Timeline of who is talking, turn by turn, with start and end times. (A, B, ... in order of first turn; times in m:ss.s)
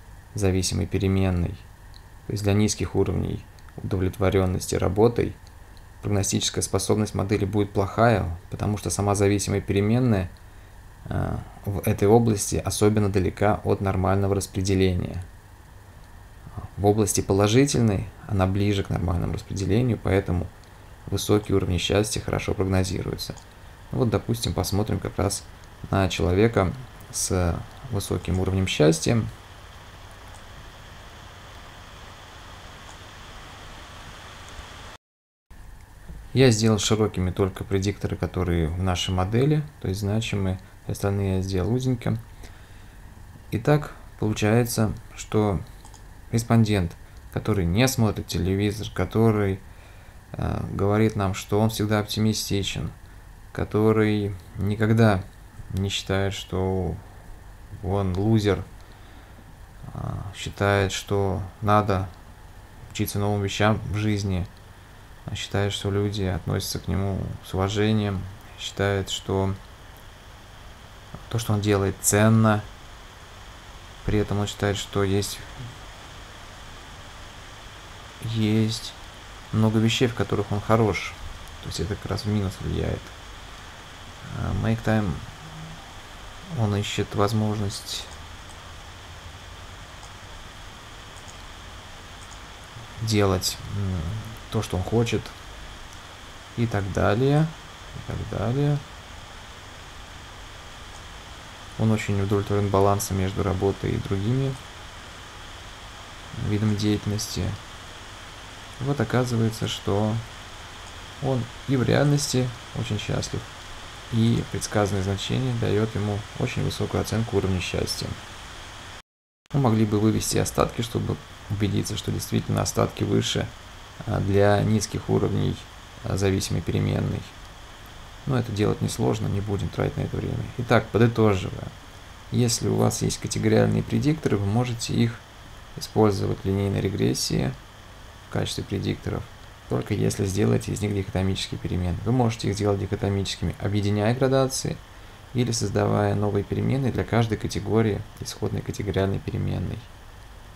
0:00.3-0:01.6 A
0:02.3-0:05.4 A
0:06.0-0:10.3 A
0:11.0-0:15.3 A
0:16.7-0:20.5 A
0:21.1-0:23.4 A
0:23.9-0:29.3 A
0:36.3-0:42.2 A
0:43.5-0:45.6 A
0:46.3-0:49.6 A
0:50.3-0:52.9 A
0:53.5-0:57.0 A
0:57.7-0:58.6 A
0:59.9-1:02.1 A
1:02.8-1:04.5 A
1:05.2-1:09.6 A
1:11.3-1:12.7 A
1:14.0-1:15.5 A
1:18.2-1:19.0 A
1:19.5-1:23.2 A
1:24.2-1:25.3 A
1:26.5-1:28.1 A
1:33.0-1:35.4 A
1:36.6-1:38.8 A
1:41.8-1:44.6 A
1:46.4-1:47.6 A
1:48.8-1:50.2 A
1:51.2-1:53.5 A
1:54.1-1:58.2 A
1:59.5-2:03.5 A
2:04.0-2:07.3 A
2:08.2-2:11.7 A
2:12.3-2:17.6 A
2:18.3-2:24.8 A
2:25.3-2:29.9 A